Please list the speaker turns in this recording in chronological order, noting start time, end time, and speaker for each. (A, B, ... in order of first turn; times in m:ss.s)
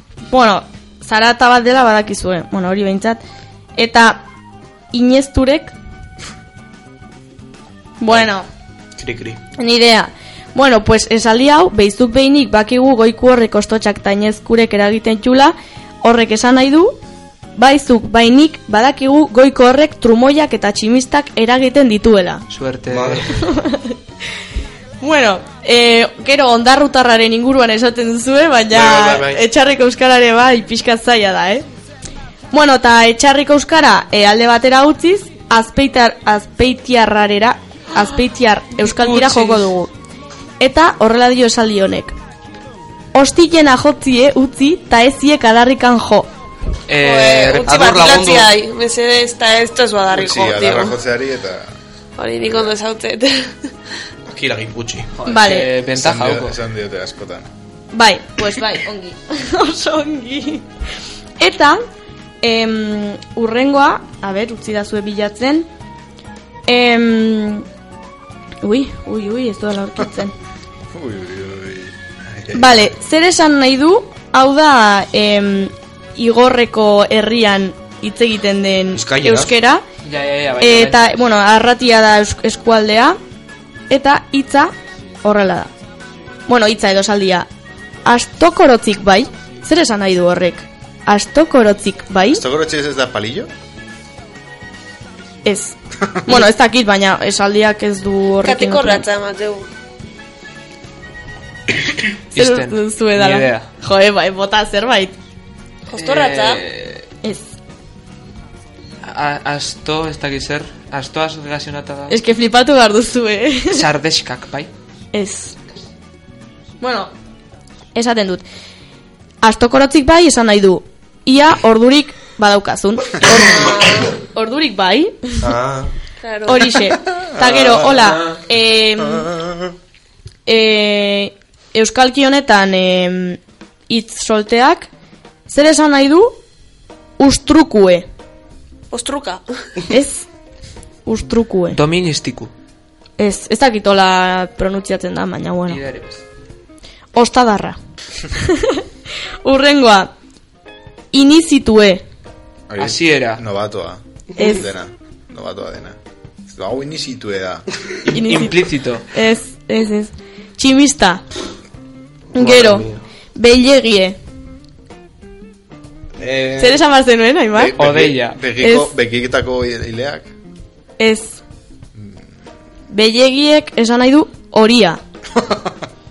0:00.3-0:03.2 A
0:03.8-0:04.2 A
0:04.9-0:05.7 A
0:08.0-0:08.4 A
0:09.0-0:09.4 B
0:09.6-0:17.0 A
0:17.6-0:22.4 A
0:22.5-0:23.4 C
0:22.9-0:23.5 B
0:23.4-0:24.0 A
0:25.0-0:31.6 A
0:28.7-0:29.4 B
0:32.5-0:39.9 A
0:38.9-0:39.6 C
0:40.6-0:42.1 A
0:43.1-0:46.3 A
0:46.9-0:47.8 C
0:47.0-0:51.0 D
0:47.6-0:48.5 B
0:50.1-0:51.7 E
0:52.2-0:53.5 D
0:52.4-0:52.7 E
0:54.2-0:55.1 B
0:55.2-0:56.6 C
0:55.2-0:55.7 A
0:55.8-0:57.5 E
0:57.9-1:00.6 A
1:01.4-1:01.8 A
1:02.4-1:05.7 A
1:06.7-1:07.6 A
1:08.6-1:10.3 A
1:10.9-1:12.9 E
1:12.5-1:19.8 A
1:18.9-1:19.5 B
1:20.0-1:21.2 C
1:20.6-1:23.2 A
1:23.9-1:24.7 A
1:25.2-1:25.7 A
1:26.5-1:27.5 A
1:28.0-1:32.4 A
1:32.3-1:33.5 E
1:35.4-1:39.0 A
1:38.4-1:39.7 D
1:42.3-1:43.7 C
1:42.3-1:45.2 A
1:45.9-1:46.6 D
1:45.9-1:47.1 C
1:47.2-1:47.5 A
1:49.0-1:52.2 C
1:52.1-1:53.9 A
1:53.7-1:54.7 C
1:55.1-1:55.6 A
1:56.8-1:57.1 A
1:57.9-1:58.4 A
1:59.4-2:05.4 A
2:03.4-2:04.1 D
2:05.4-2:05.9 B
2:06.2-2:06.8 D
2:06.5-2:09.3 A
2:07.1-2:08.0 E
2:08.0-2:08.4 C
2:09.1-2:09.7 E
2:10.4-2:14.9 A
2:15.5-2:16.4 A
2:17.2-2:18.0 A
2:18.9-2:19.4 D
2:19.9-2:20.3 A
2:21.0-2:21.8 A
2:21.7-2:22.5 C
2:23.2-2:25.8 A
2:25.7-2:26.2 C
2:27.1-2:27.8 A
2:28.3-2:28.8 A
2:29.4-2:30.1 A
2:31.1-2:32.0 A
2:32.7-2:36.0 E
2:32.8-2:33.4 C
2:34.4-2:34.6 A
2:36.5-2:37.6 E
2:38.0-2:39.0 C
2:38.1-2:41.2 A
2:42.4-2:42.8 A
2:42.4-2:43.0 B
2:43.4-2:44.2 A
2:46.2-2:46.8 B
2:46.6-2:47.8 A
2:47.5-2:50.3 E
2:47.8-2:48.4 C
2:48.6-2:48.9 A
2:51.0-2:51.4 A
2:52.9-2:55.0 A
2:55.3-2:55.8 E